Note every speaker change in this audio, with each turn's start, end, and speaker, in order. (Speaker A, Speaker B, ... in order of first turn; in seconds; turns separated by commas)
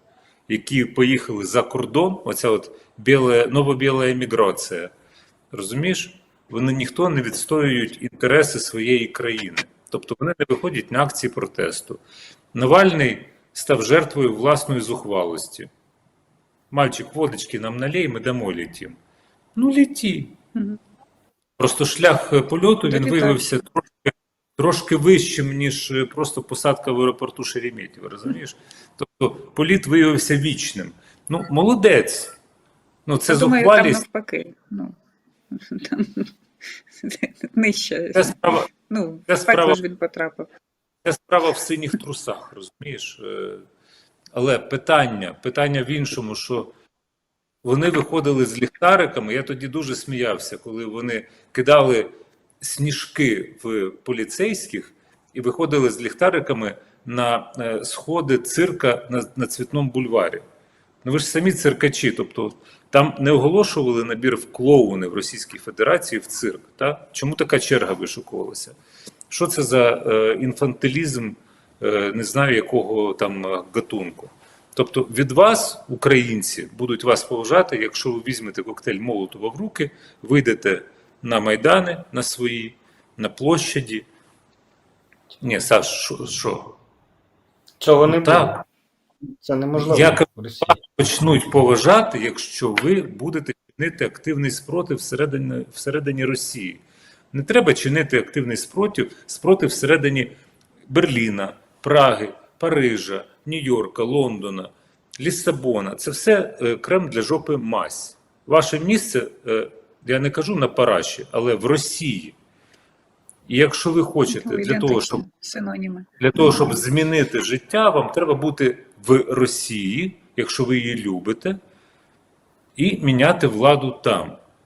Speaker A: 0.5-4.9, Speaker A: 5.5-12.0, Speaker A: 12.5-15.7, Speaker A: 16.7-19.0, Speaker A: 19.6-20.4, Speaker A: 21.6-32.4, Speaker B: 22.9-23.4, Speaker A: 33.1-34.0, Speaker B: 33.3-35.0, Speaker B: 35.5-40.5, Speaker A: 38.1-38.7, Speaker A: 39.3-39.8, Speaker A: 41.0-43.6, Speaker A: 44.3-46.7, Speaker A: 47.6-60.5, Speaker A: 61.0-68.8, Speaker A: 69.3-84.1, Speaker A: 85.4-86.8, Speaker C: 87.8-88.6, Speaker A: 88.0-88.6, Speaker C: 89.3-90.8, Speaker A: 89.8-100.3, Speaker A: 100.9-112.4, Speaker A: 113.5-115.2, Speaker B: 114.3-116.8, Speaker A: 116.2-121.6, Speaker A: 122.8-124.4